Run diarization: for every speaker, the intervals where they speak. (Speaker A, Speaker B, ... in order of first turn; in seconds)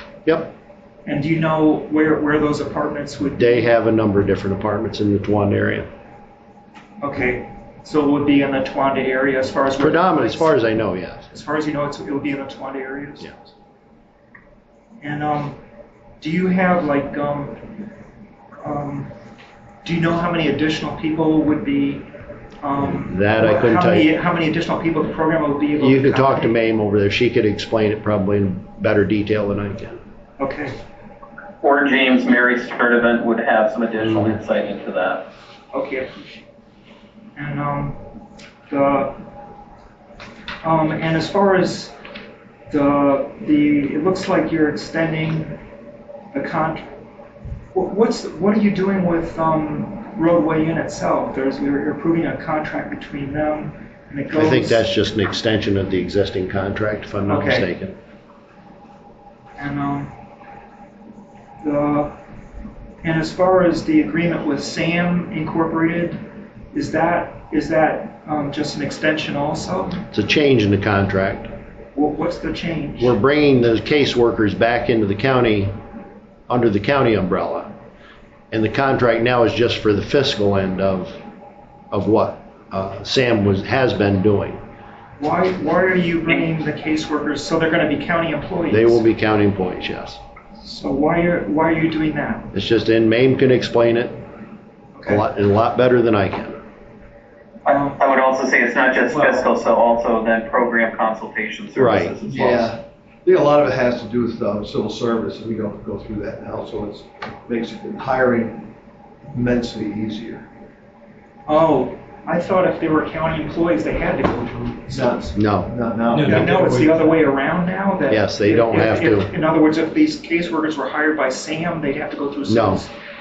Speaker A: 0.2-0.5, 3.4-5.9, 9.8-11.3, 23.0-24.1, 25.8-30.0, 34.0-34.4, 54.3-57.9, 70.1-71.5, 73.0-75.7, 76.5-77.7, 78.5-81.2, 81.9-84.6, 88.7-90.2, 92.5-94.2, 95.1-96.6, 101.8-102.2, 115.3-115.7, 116.3-116.6, 118.1-119.3, 122.5-122.8
Speaker B: 1.0-3.7, 7.0-10.6, 11.3-13.3, 15.0-15.6, 16.2-17.6, 18.6-19.1, 19.8-22.1, 22.6-26.6, 30.4-30.7, 35.7-36.1, 37.4-38.0, 38.7-39.1, 40.6-41.9, 42.7-45.6, 46.3-46.9, 47.7-54.9, 57.3-57.7, 59.6-60.1, 61.6-62.1, 63.0-66.2, 66.7-70.0, 71.9-73.2, 85.2-89.0, 90.6-92.5, 94.9-95.2, 97.7-98.0, 111.5-115.4, 116.2-122.9
Speaker C: 31.6-35.2, 97.7-102.7
Speaker D: 99.1-99.5, 102.3-108.7, 109.3-110.4, 114.9-116.8